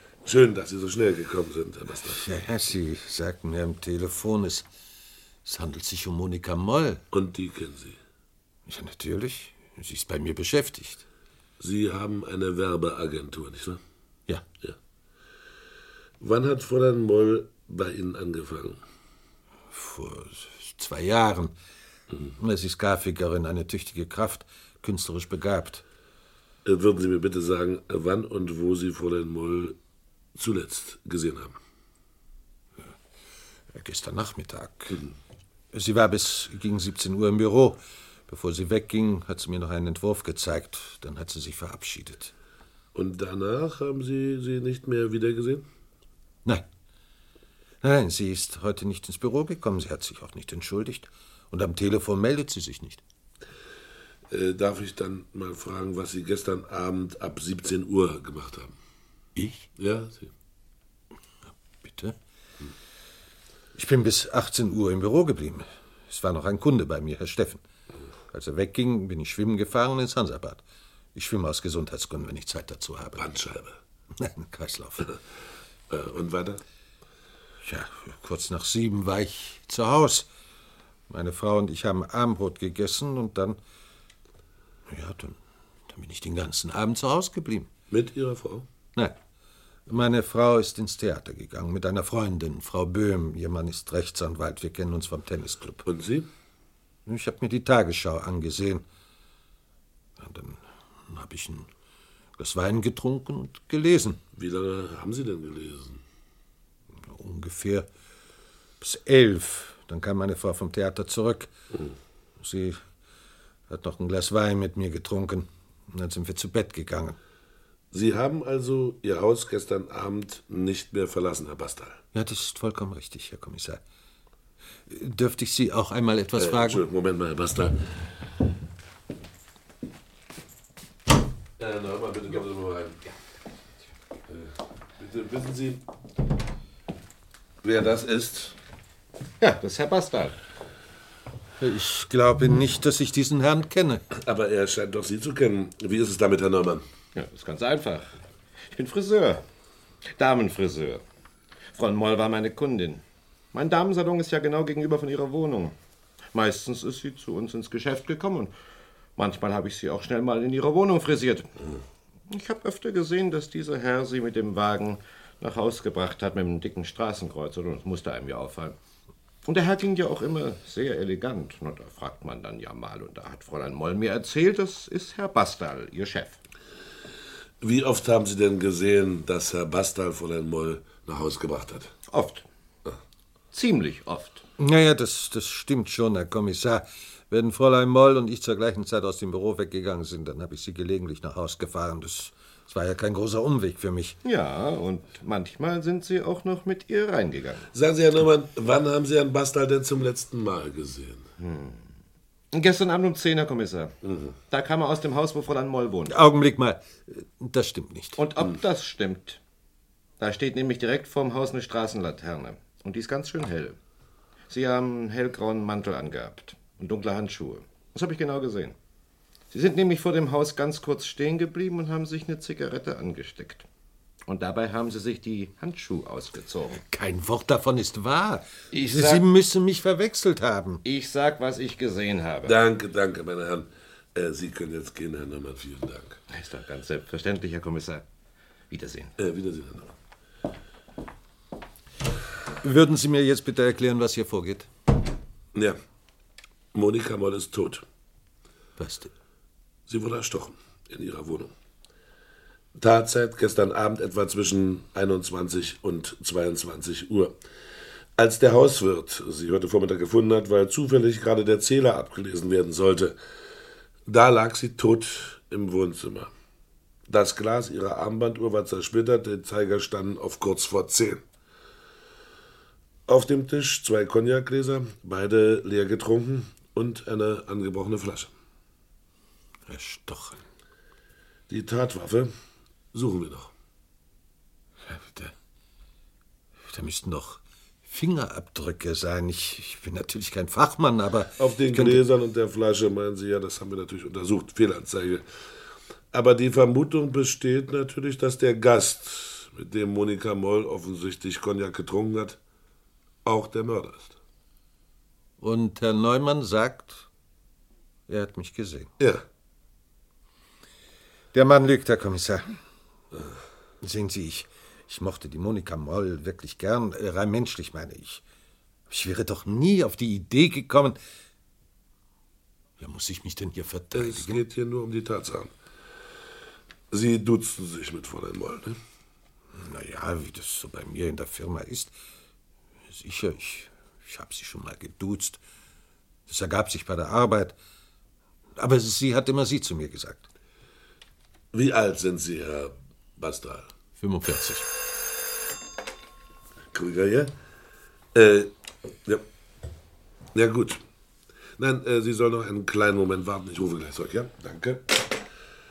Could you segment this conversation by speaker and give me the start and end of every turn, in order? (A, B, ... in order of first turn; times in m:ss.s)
0:00.2-0:02.2 A
0:02.0-0:04.7 B
0:05.4-0:07.0 B
0:07.1-0:08.0 A
0:08.7-0:11.0 B
0:11.6-0:13.8 A
0:16.2-0:18.8 A
0:19.7-0:21.6 B
0:22.4-0:25.8 B
0:26.6-0:29.8 A
0:30.4-0:31.6 A
0:33.7-0:35.0 B
0:35.7-0:42.3 B
0:42.9-0:45.6 A
0:47.8-0:53.0 B
0:54.3-0:58.8 A
0:59.4-0:59.7 B
0:59.8-1:00.3 A
1:01.8-1:02.2 B
1:03.8-1:07.6 B
1:08.3-1:10.6 B
1:11.2-1:13.3 B
1:13.2-1:13.8 A
1:14.1-1:15.1 B
1:15.9-1:16.6 A
1:17.6-1:20.3 B
1:21.1-1:23.6 B
1:24.9-1:25.4 B
1:25.9-1:27.7 B
1:27.9-1:28.6 A
1:29.9-1:35.8 B
1:35.8-1:36.3 A
1:37.1-1:38.8 B
1:40.2-1:41.7 B
1:42.4-1:44.2 B
1:44.4-1:46.0 A
1:47.0-1:47.9 B
1:48.8-1:51.5 B
1:52.4-1:52.8 B
1:53.7-1:57.2 B
1:57.9-2:02.0 A
2:02.1-2:03.8 B
2:04.9-2:06.8 B
2:06.4-2:07.8 A
2:11.6-2:13.0 A
2:14.3-2:15.8 A
2:17.6-2:18.6 A
2:19.4-2:20.4 C
2:21.6-2:24.0 B
2:24.1-2:26.8 A
2:27.2-2:28.2 C
2:28.7-2:29.4 C
2:30.1-2:31.0 C
2:31.7-2:35.8 C
2:36.3-2:38.5 C
2:39.2-2:41.5 C
2:42.3-2:48.8 C
2:49.4-2:56.4 C
2:57.6-3:01.9 A
3:02.1-3:02.5 C
3:03.5-3:04.4 C
3:04.6-3:14.2 B
3:14.2-3:17.7 C
3:17.7-3:21.3 A
3:21.4-3:21.9 C
3:22.5-3:24.0 C
3:24.0-3:24.3 A
3:24.5-3:26.2 C
3:26.1-3:28.2 B
3:28.2-3:29.4 C
3:30.2-3:33.8 C
3:34.5-3:38.8 C
3:39.5-3:43.7 C
3:44.3-3:46.8 C
3:46.7-3:50.8 B
3:48.8-3:49.2 A
3:48.8-3:49.1 C
3:50.8-3:52.6 C
3:52.5-3:56.2 A
3:56.3-3:58.0 C
3:58.7-3:59.1 C
3:59.2-3:59.9 A
4:02.6-4:04.7 B
4:06.7-4:07.8 A
4:08.8-4:09.1 B
4:09.9-4:11.5 A
4:12.8-4:17.4 A
4:18.2-4:23.2 A
4:24.1-4:26.3 A
4:27.1-4:31.2 A
4:33.1-4:38.3 A
4:39.7-4:40.4 B
4:41.5-4:42.3 A
4:42.9-4:43.5 A
4:44.9-4:45.3 B
4:46.6-4:52.0 B
4:51.4-4:55.2 A
4:56.1-5:02.4 A
5:03.2-5:04.2 A
5:05.4-5:07.1 B
5:08.1-5:08.9 B
5:11.3-5:12.6 B
5:13.8-5:18.2 B
5:18.9-5:21.0 B
5:22.8-5:24.4 B
5:24.0-5:25.5 A
5:26.9-5:28.8 A
5:29.5-5:31.9 B
5:32.9-5:35.4 B
5:36.3-5:37.6 B
5:38.6-5:40.3 B
5:41.5-5:43.7 A
5:44.0-5:44.7 B
5:46.7-5:47.3 A
5:48.1-5:48.5 A
5:50.3-5:50.8 A
5:51.6-5:55.0 A